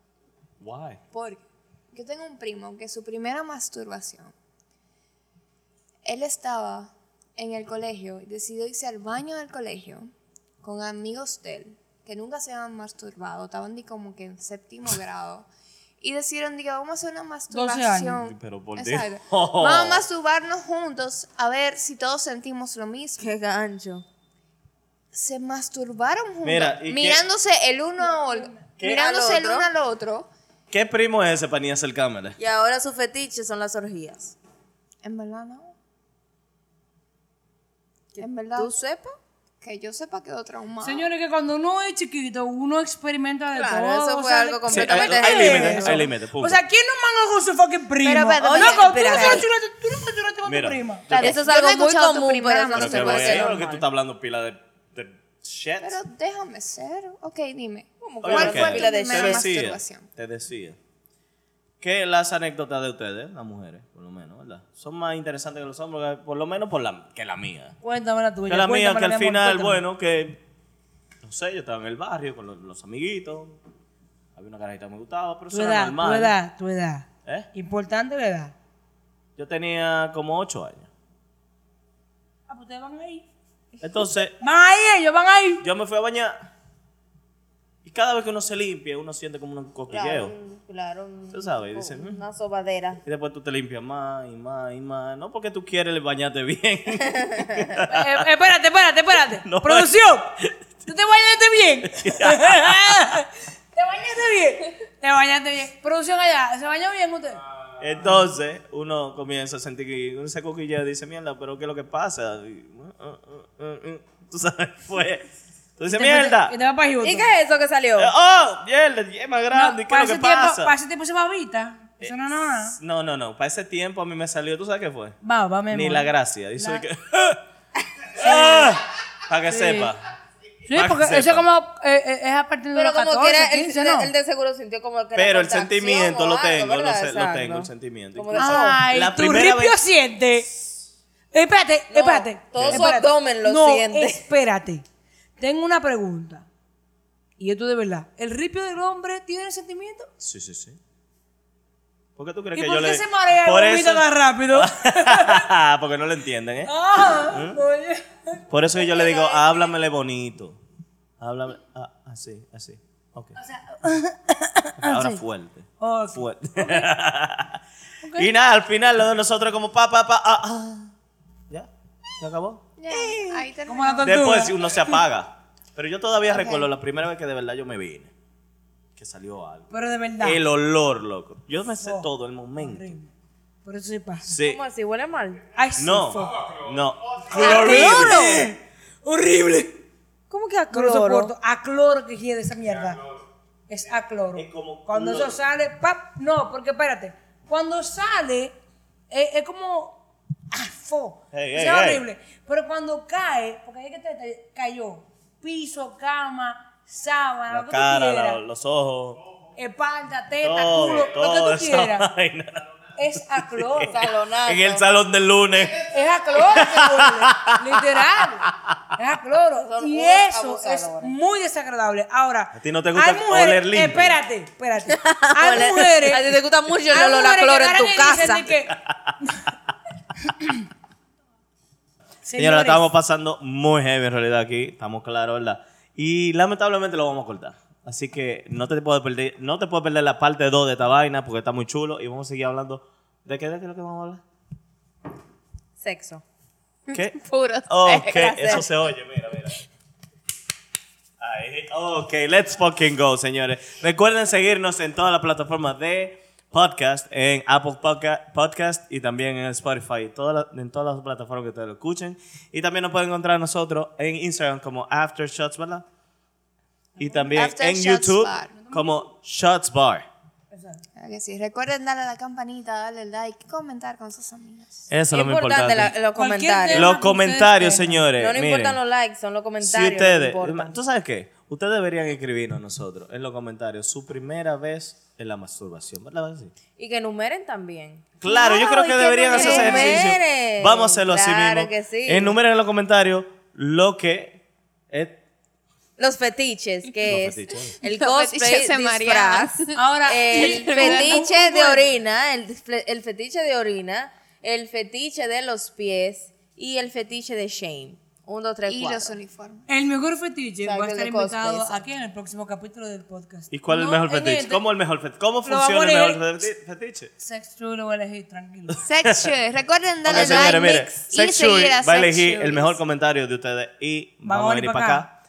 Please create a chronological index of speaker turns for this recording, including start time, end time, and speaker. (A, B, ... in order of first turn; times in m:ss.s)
0:00.6-0:01.0 A
0:01.1-0:04.3 B
0:06.0-0:15.5 B
0:16.0-0:23.3 B
0:17.5-0:18.2 C
0:18.2-0:20.0 A
0:23.2-0:24.0 D
0:25.1-0:30.3 B
0:26.4-0:27.2 A
0:28.8-0:29.7 D
0:30.7-0:32.4 A
0:32.4-0:34.4 D
0:35.0-0:35.7 B
0:38.1-0:39.2 D
0:38.2-0:38.7 B
0:39.6-0:41.1 B
0:40.8-0:51.0 C
0:43.5-0:46.0 D
0:44.7-0:46.6 A
0:48.0-0:49.4 B
0:48.4-0:49.4 D
0:50.4-0:51.4 A
0:51.1-0:53.6 B
0:51.1-0:53.9 D
0:52.7-0:56.0 A
0:55.8-1:00.1 B
0:58.0-0:59.5 D
0:58.2-1:00.8 A
1:01.8-1:07.7 A
1:07.8-1:09.8 C
1:08.5-1:10.4 A
1:11.2-1:13.6 A
1:14.3-1:16.3 A
1:15.5-1:18.5 C
1:19.4-1:20.9 A
1:22.5-1:23.2 C
1:23.8-1:24.4 A
1:24.4-1:25.6 C
1:25.6-1:26.4 A
1:27.8-1:30.3 A
1:29.9-1:33.0 D
1:31.3-1:32.2 A
1:33.0-1:38.2 A
1:37.9-1:40.3 C
1:39.4-1:39.9 A
1:40.8-1:47.4 C
1:41.8-1:42.7 A
1:47.8-1:56.5 A
1:55.9-1:57.3 C
1:57.0-1:58.1 D
1:58.0-2:00.7 A
1:59.5-2:02.8 C
2:02.0-2:05.2 A
2:05.2-2:06.8 C
2:05.7-2:07.4 A
2:08.2-2:10.0 A
2:09.5-2:09.9 C
2:10.7-2:14.1 C
2:10.7-2:11.4 A
2:12.7-2:18.8 D
2:15.2-2:19.8 A
2:18.4-2:20.5 C
2:21.3-2:24.8 C
2:21.9-2:24.2 D
2:22.6-2:22.9 A
2:25.4-2:26.4 C
2:27.4-2:30.1 C
2:30.2-2:30.8 A
2:32.2-2:36.7 A
2:32.5-2:35.5 C
2:36.6-2:39.4 C
2:37.3-2:37.6 A
2:38.5-2:40.6 A
2:41.2-2:43.4 A
2:43.4-2:45.2 C
2:44.8-2:47.6 A
2:45.8-2:46.9 C
2:48.0-2:48.3 C
2:48.2-2:50.9 A
2:51.5-2:52.6 A
2:52.8-2:54.4 B
2:52.9-2:55.0 C
2:54.0-2:58.1 A
2:59.0-2:59.7 A
2:59.7-3:00.4 C
3:00.2-3:02.9 A
3:01.8-3:03.1 C
3:03.6-3:04.3 C
3:04.2-3:04.6 A
3:04.4-3:05.4 D
3:05.5-3:06.5 C
3:05.8-3:08.3 A
3:07.3-3:09.8 C
3:07.3-3:08.4 D
3:10.3-3:11.3 D
3:10.7-3:13.0 C
3:13.7-3:18.6 C
3:14.4-3:15.4 A
3:19.1-3:20.0 C
3:20.5-3:28.4 C
3:21.3-3:22.0 A
3:27.5-3:29.2 A
3:29.6-3:32.1 C
3:30.4-3:32.6 A
3:33.0-3:34.0 C
3:33.4-3:37.8 A
3:33.9-3:34.8 D
3:35.8-3:46.4 C
3:39.6-3:41.1 D
3:42.5-3:44.2 A
3:44.8-3:48.4 D
3:46.9-3:49.4 C
3:48.7-3:49.0 A
3:50.2-3:50.6 C
3:52.2-3:52.8 C
3:52.4-4:04.2 A
4:05.8-4:06.2 D
4:06.9-4:08.7 B
4:07.7-4:09.6 A
4:08.0-4:08.7 D
4:11.2-4:25.8 A
4:27.0-4:27.4 C
4:27.0-4:30.1 A
4:27.3-4:28.6 B
4:28.6-4:29.0 C
4:30.5-4:30.8 C
4:31.0-4:34.9 B
4:34.9-4:35.9 A
4:35.1-4:36.9 D
4:36.1-4:38.0 C
4:36.7-4:38.8 A
4:38.2-4:40.8 D
4:39.6-4:46.5 A
4:46.8-4:52.4 D
4:48.2-4:55.2 A
4:49.3-4:50.1 B
4:56.0-5:09.2 D
4:57.0-4:57.8 A
4:57.8-5:01.3 B
4:59.8-5:01.9 C
5:08.7-5:09.6 B
5:09.7-5:14.6 C
5:10.6-5:11.8 D
5:13.5-5:17.1 A
5:15.4-5:16.2 C
5:17.2-5:18.8 C
5:18.7-5:19.3 A
5:18.8-5:22.8 B
5:20.0-5:25.1 A
5:20.1-5:20.8 D
5:24.2-5:25.0 C